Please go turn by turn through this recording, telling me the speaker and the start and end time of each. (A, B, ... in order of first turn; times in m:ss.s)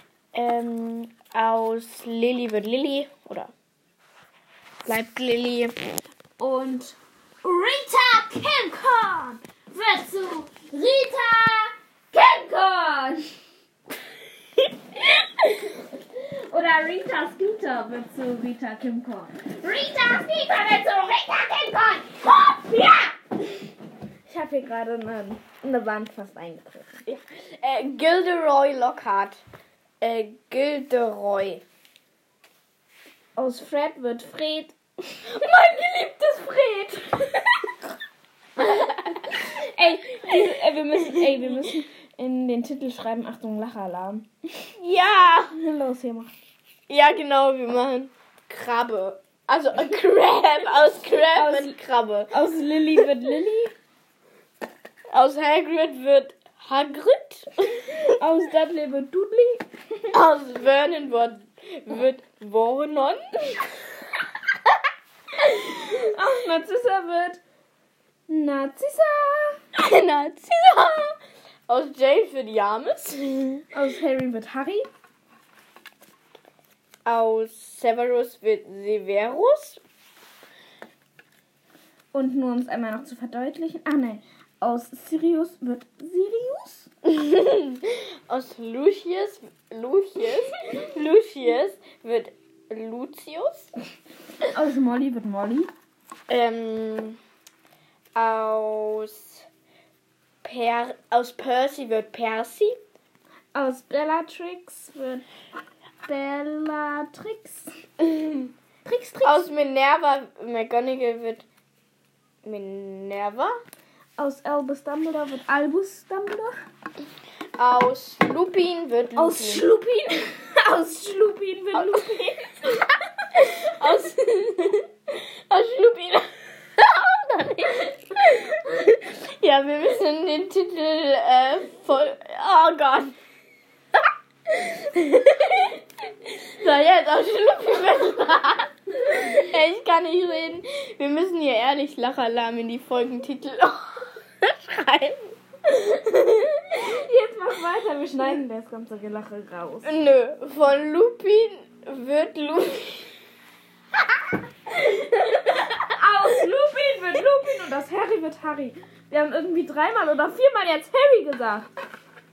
0:00.3-0:03.5 A
0:04.9-0:05.8 A
0:06.4-0:13.2 B
0:15.4-0:23.4 B
0:24.3-0:27.0 B
0:27.1-0:29.4 A
0:30.0-0:31.6 A
0:33.4-0:37.7 B
0:38.6-0:38.9 A
0:38.8-0:44.7 B
0:41.2-0:41.6 A
0:44.8-0:45.5 A
0:45.5-0:46.3 B
0:46.9-0:52.3 A
0:51.2-0:51.8 B
0:52.3-0:53.7 B
0:55.1-0:57.9 A
0:57.9-1:00.1 B
1:00.1-1:03.3 A
1:05.4-1:07.4 B
1:08.3-1:09.6 B
1:09.8-1:11.2 A
1:11.7-1:13.6 A
1:13.7-1:14.9 B
1:17.1-1:19.8 A
1:22.1-1:26.9 B
1:27.1-1:33.7 A
1:34.5-1:35.7 B
1:36.3-1:37.2 A
1:38.2-1:39.4 A
1:40.4-1:42.8 A
1:43.5-1:45.2 B
1:46.1-1:47.7 B
1:48.0-1:48.5 A
1:48.8-1:49.5 B
1:49.2-1:51.4 A
1:52.4-1:53.5 A
1:54.2-1:56.5 B
1:57.6-1:59.7 A
1:59.2-2:03.3 B
2:01.7-2:02.2 A
2:03.4-2:04.8 A
2:05.5-2:06.2 A
2:06.8-2:13.2 A
2:14.5-2:15.8 A
2:16.4-2:25.3 A
2:25.9-2:26.5 A
2:26.7-2:29.9 B
2:29.8-2:33.1 A
2:34.9-2:41.7 B